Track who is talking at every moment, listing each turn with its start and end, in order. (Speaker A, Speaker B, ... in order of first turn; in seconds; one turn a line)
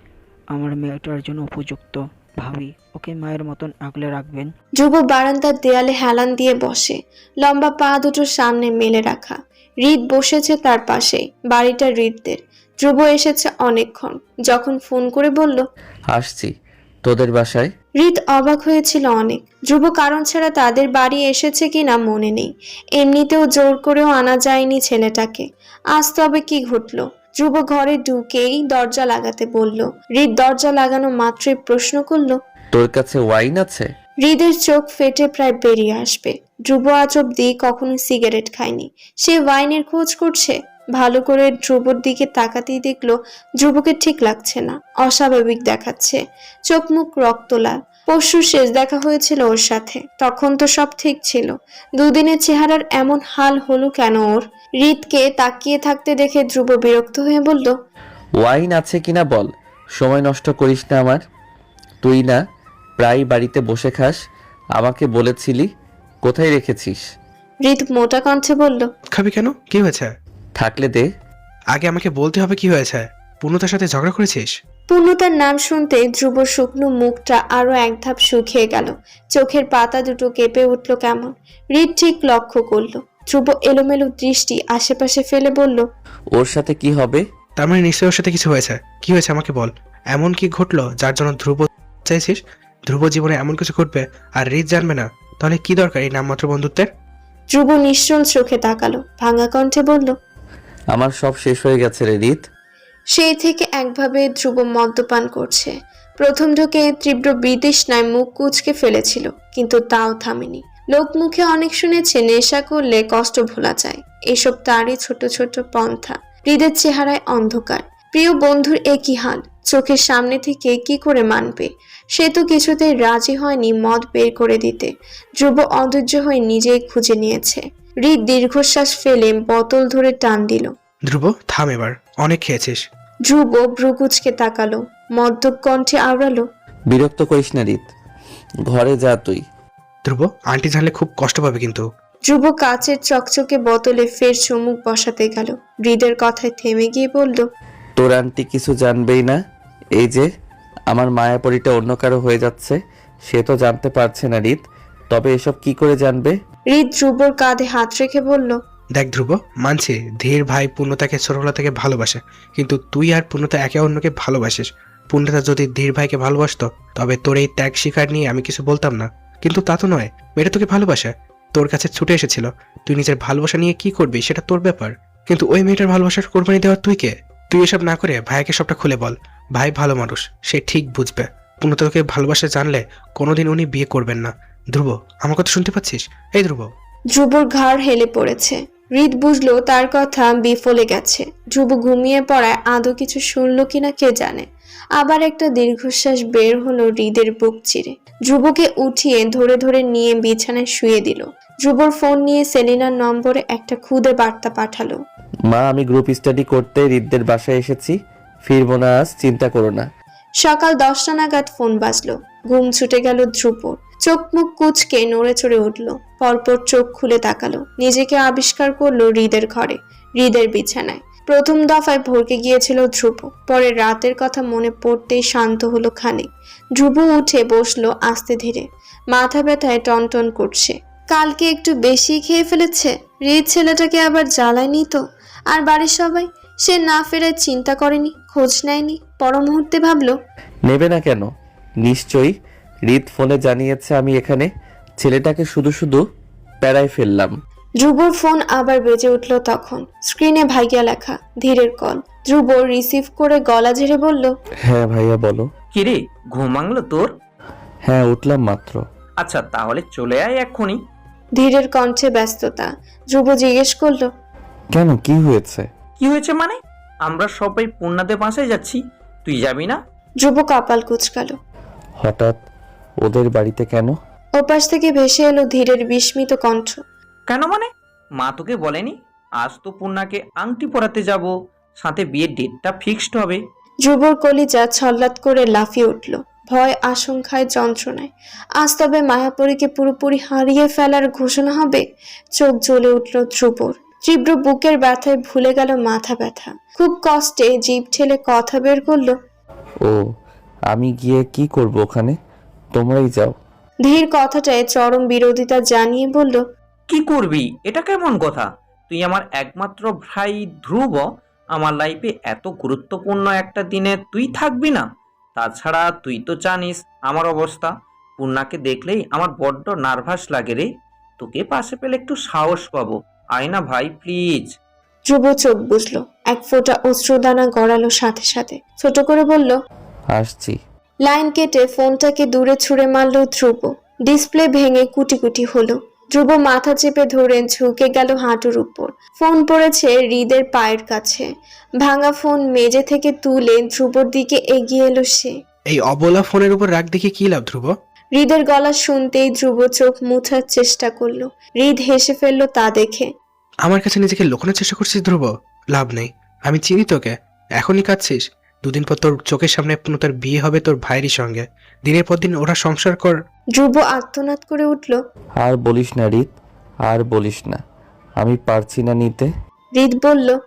Speaker A: 0.5-4.5
Speaker B: 4.8-15.6
Speaker C: 16.1-16.5
Speaker C: 17.0-17.7
Speaker B: 18.0-32.4
Speaker C: 32.7-33.9
Speaker B: 34.2-46.2
Speaker B: 46.7-57.7
Speaker C: 58.4-61.2
Speaker C: 62.0-62.4
Speaker C: 63.0-64.2
Speaker C: 64.8-65.7
Speaker C: 66.2-67.0
Speaker B: 67.6-68.9
Speaker D: 69.1-70.1
Speaker C: 70.6-71.1
Speaker D: 71.7-74.5
Speaker B: 74.9-85.8
Speaker C: 86.3-87.2
Speaker D: 87.6-92.4
Speaker D: 92.9-96.9
Speaker B: 97.5-100.1
Speaker C: 100.9-102.4
Speaker B: 103.1-130.7
Speaker D: 131.1-132.8
Speaker B: 133.3-136.4
Speaker C: 136.9-137.9
Speaker C: 138.7-139.4
Speaker D: 140.1-141.8
Speaker B: 142.3-147.4
Speaker C: 148.0-149.4
Speaker C: 150.0-150.3
Speaker C: 150.9-156.3
Speaker B: 156.7-158.6
Speaker D: 158.9-186.7
Speaker B: 187.1-194.4
Speaker B: 195.0-205.0
Speaker C: 205.5-209.9
Speaker B: 210.4-226.3
Speaker B: 226.8-235.0
Speaker B: 235.5-240.1
Speaker C: 240.7-241.3
Speaker C: 241.8-242.3
Speaker C: 242.9-244.5
Speaker C: 245.0-246.0
Speaker C: 246.6-247.4
Speaker B: 247.8-254.3
Speaker C: 254.7-255.5
Speaker E: 255.7-257.1
Speaker C: 257.9-258.8
Speaker E: 259.2-260.8
Speaker B: 261.4-264.1
Speaker C: 264.7-265.7
Speaker E: 266.0-269.8
Speaker B: 270.2-271.4
Speaker C: 272.0-272.4
Speaker C: 273.0-273.9
Speaker B: 274.4-276.8
Speaker E: 277.3-283.4
Speaker B: 283.8-291.8
Speaker B: 292.4-299.1
Speaker C: 300.7-302.2
Speaker C: 302.7-303.3
Speaker B: 303.8-306.4
Speaker E: 306.9-314.9
Speaker E: 315.4-320.7
Speaker E: 321.2-324.5
Speaker B: 325.1-329.6
Speaker C: 330.1-330.6
Speaker B: 331.1-341.2
Speaker B: 341.8-345.3
Speaker D: 345.7-347.7
Speaker B: 348.2-353.1
Speaker D: 353.7-363.1
Speaker B: 363.6-365.0
Speaker C: 365.4-366.3
Speaker C: 366.9-367.6
Speaker C: 368.2-369.3
Speaker B: 369.8-370.4